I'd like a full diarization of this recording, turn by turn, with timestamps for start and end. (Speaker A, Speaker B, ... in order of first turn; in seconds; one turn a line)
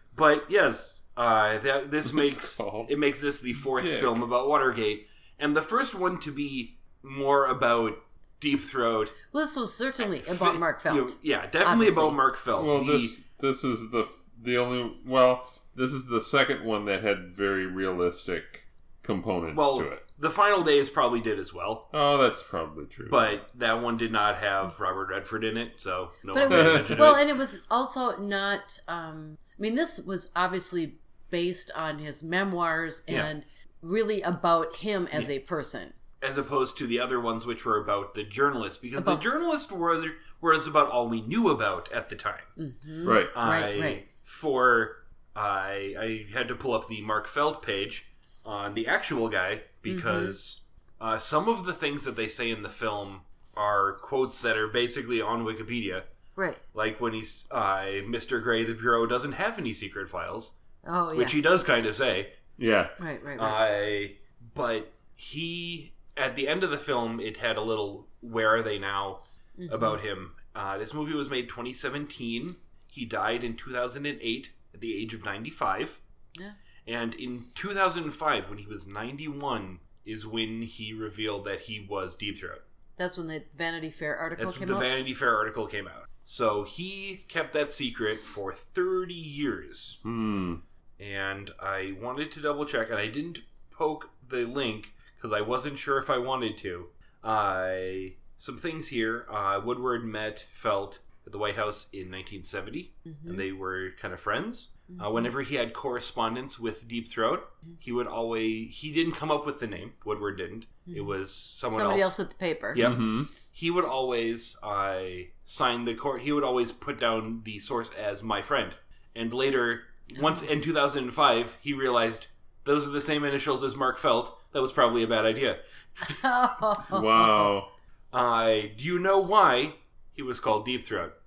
Speaker A: 0.1-9.2
Speaker B: 2.0-2.9
Speaker B: 3.8-4.2
Speaker C: 9.3-12.2
Speaker A: 10.0-13.2
Speaker B: 12.5-20.0
Speaker A: 19.5-21.9
Speaker B: 21.9-23.4
Speaker A: 23.1-27.2
Speaker C: 26.3-35.9
Speaker B: 26.5-27.2
Speaker A: 36.2-42.5
Speaker C: 39.0-39.2
Speaker C: 42.6-44.0
Speaker B: 43.0-43.3
Speaker A: 43.3-56.0
Speaker C: 49.9-50.4
Speaker C: 56.4-56.6
Speaker A: 56.7-60.5
Speaker C: 60.8-61.4
Speaker A: 61.1-62.4
Speaker B: 62.6-62.9
Speaker C: 63.0-63.6
Speaker A: 63.4-76.0
Speaker C: 69.6-70.0
Speaker A: 76.8-82.6
Speaker C: 83.0-84.9
Speaker A: 84.4-90.0
Speaker B: 90.0-90.6
Speaker A: 91.0-112.1
Speaker C: 103.0-103.5
Speaker C: 104.9-105.2
Speaker C: 111.7-112.8
Speaker A: 112.7-126.2
Speaker B: 112.8-113.3
Speaker C: 126.0-127.5
Speaker B: 126.9-127.7
Speaker A: 128.1-131.1